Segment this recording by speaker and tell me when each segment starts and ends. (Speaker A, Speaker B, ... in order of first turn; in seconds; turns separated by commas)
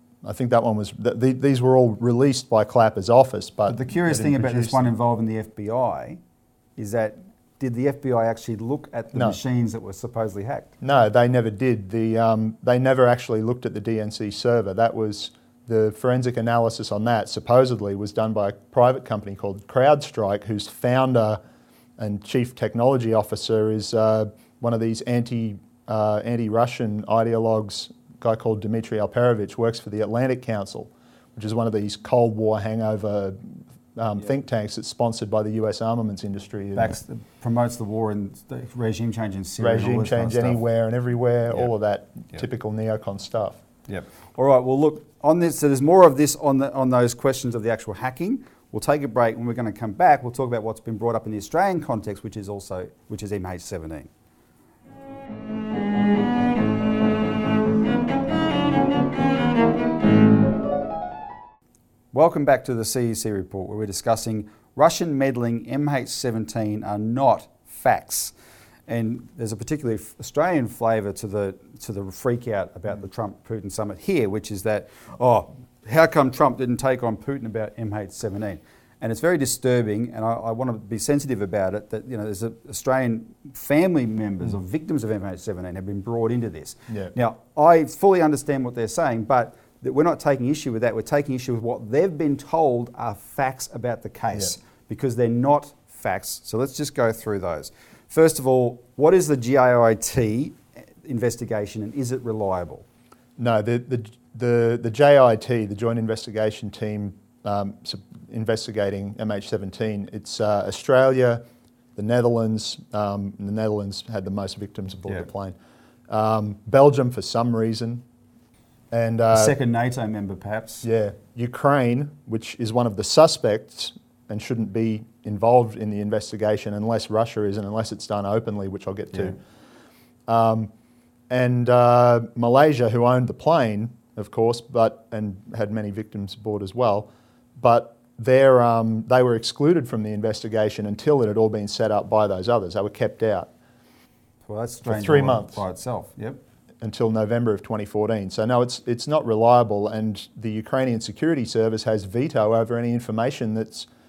Speaker A: 0.2-4.9, Speaker B: 3.7-6.2, Speaker B: 6.8-10.7, Speaker A: 10.8-21.4, Speaker A: 22.0-37.0, Speaker B: 36.8-40.6, Speaker A: 39.6-43.6, Speaker B: 43.9-54.1, Speaker B: 62.1-68.3, Speaker B: 68.9-102.8, Speaker A: 86.9-87.1, Speaker A: 103.4-111.4, Speaker A: 112.0-115.6, Speaker A: 116.1-118.0, Speaker A: 118.9-119.6, Speaker B: 119.3-120.9, Speaker A: 120.8-129.4, Speaker A: 130.3-130.7, Speaker A: 131.3-143.5, Speaker B: 144.5-146.4, Speaker A: 144.8-145.6, Speaker A: 146.8-153.9